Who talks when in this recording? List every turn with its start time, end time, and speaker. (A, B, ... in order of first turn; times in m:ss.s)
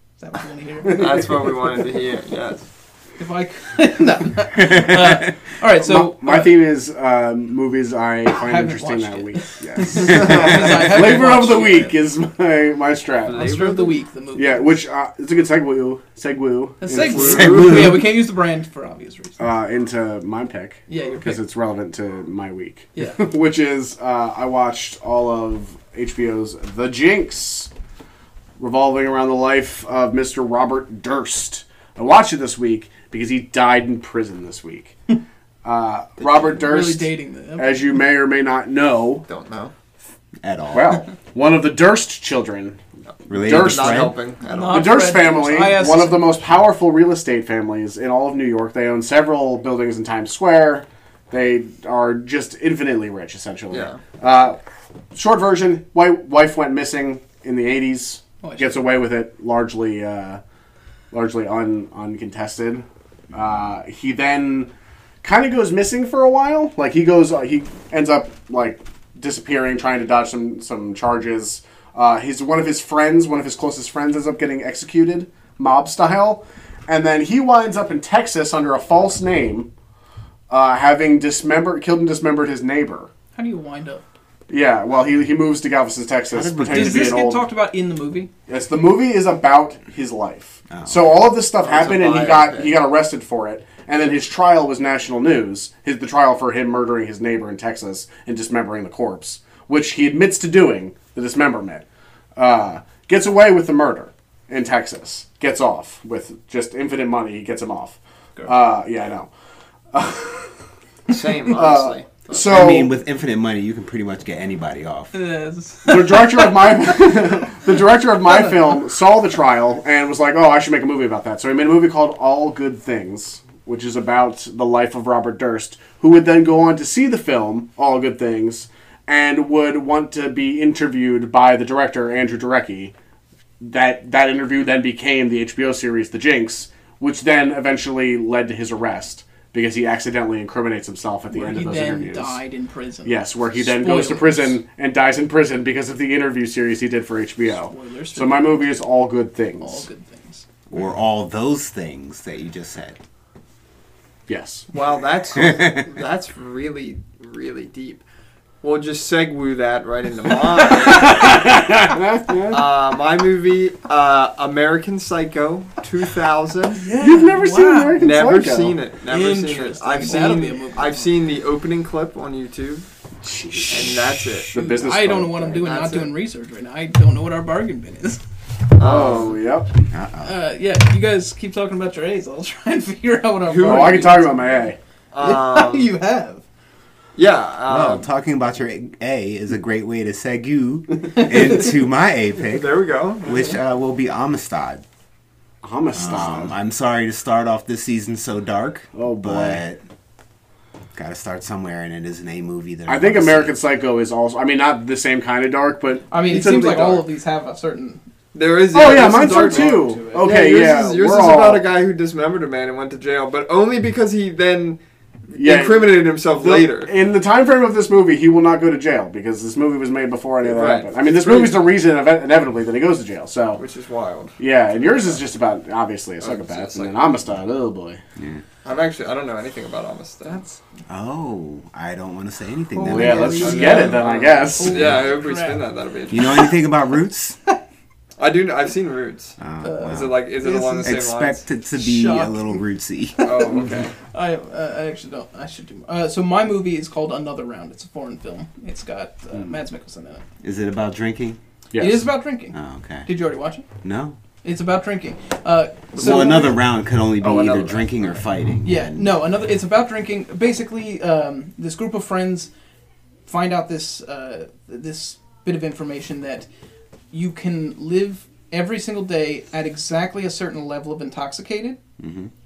0:00.2-0:01.2 A
0:00.8-0:01.2 B
0:00.9-0:02.6 C
0:03.2-0:06.6 A
0:05.7-0:13.8 B
0:08.2-0:12.0 A
0:10.0-0:10.9 C
0:10.0-0:10.4 D
0:13.2-0:14.7 A
0:13.3-0:13.9 C
0:14.3-0:17.7 B
0:16.8-0:19.4 A
0:16.9-0:18.0 C
0:17.6-0:17.9 D
0:19.4-0:27.7 B
0:20.9-0:21.4 A
0:22.9-0:23.2 A
0:28.6-0:35.1 B
0:35.6-0:39.2 B
0:36.5-0:37.8 A
0:39.3-0:39.7 C
0:40.4-0:41.0 D
0:40.7-0:54.6 B
0:43.2-0:45.2 C
0:43.3-0:44.2 D
0:44.5-0:46.5 A
0:53.7-0:54.0 C
0:55.1-1:00.4 B
0:58.4-0:58.9 A
1:01.1-1:04.7 B
1:05.2-1:19.7 B
1:20.5-1:23.1 B
1:23.4-1:24.0 A
1:24.5-1:27.4 B
1:26.3-1:27.3 D
1:26.7-1:28.3 A
1:28.5-1:41.8 B
1:30.7-1:31.1 D
1:31.6-1:32.8 C
1:42.4-1:49.3 B
1:49.9-1:50.5 B
1:51.1-1:52.7 C
1:51.4-1:52.9 B
1:52.4-1:55.1 D
1:55.1-1:56.7 A
1:55.9-2:12.9 B
1:58.3-1:58.5 A
2:13.6-2:22.4 B
2:21.3-2:24.6 A
2:23.0-2:29.8 B
2:27.4-2:28.8 A
2:29.6-2:30.4 A
2:30.7-2:33.0 D
2:34.3-2:34.6 B
2:34.7-2:38.0 C
2:35.4-2:35.8 D
2:38.6-2:41.4 C
2:40.9-2:42.6 B
2:42.5-2:46.9 C
2:46.8-2:48.8 B
2:47.0-2:48.2 A
2:48.0-2:52.9 C
2:49.1-2:51.1 A
2:53.2-2:53.8 B
2:53.6-2:54.6 C
2:54.5-2:58.2 A
2:54.5-2:55.6 B
2:55.6-2:56.1 C
2:58.8-2:59.4 C
2:58.8-2:59.9 B
2:59.9-3:00.4 D
3:00.2-3:04.6 A
3:03.5-3:04.2 C
3:03.6-3:04.8 B
3:05.1-3:05.9 C
3:05.2-3:06.4 A
3:07.1-3:08.1 C
3:07.7-3:12.7 D
3:12.4-3:13.6 C
3:13.2-3:14.8 D
3:15.6-3:16.5 B
3:16.0-3:19.8 D
3:18.9-3:19.6 B
3:20.9-3:23.6 D
3:22.9-3:27.0 B
3:26.1-3:28.0 A
3:26.2-3:27.0 C
3:28.3-3:34.8 C
3:28.7-3:31.6 B
3:28.7-3:30.5 A
3:35.3-3:36.9 C
3:35.4-3:43.6 B
3:40.4-3:41.7 C
3:43.6-3:44.4 C
3:44.4-3:48.0 B
3:46.2-3:47.1 C
3:48.2-3:48.4 D
3:48.6-3:50.5 C
3:50.9-3:53.5 D
3:52.7-3:55.6 A
3:52.9-3:55.0 B
3:52.9-3:56.5 C
3:56.1-3:57.4 D
3:58.2-4:01.4 C
3:59.4-4:00.2 D
3:59.6-4:01.0 A
4:00.8-4:03.6 D
4:01.7-4:02.6 A
4:03.2-4:03.9 C
4:04.1-4:10.2 A
4:10.4-4:11.4 D
4:11.7-4:12.1 B
4:11.7-4:13.7 A
4:12.5-4:13.1 D
4:13.8-4:14.2 D
4:14.4-4:16.6 A
4:15.9-4:16.5 C
4:16.0-4:19.2 D
4:17.2-4:18.2 C
4:18.6-4:22.5 A
4:23.2-4:26.5 A
4:27.1-4:31.8 A
4:32.0-4:32.3 D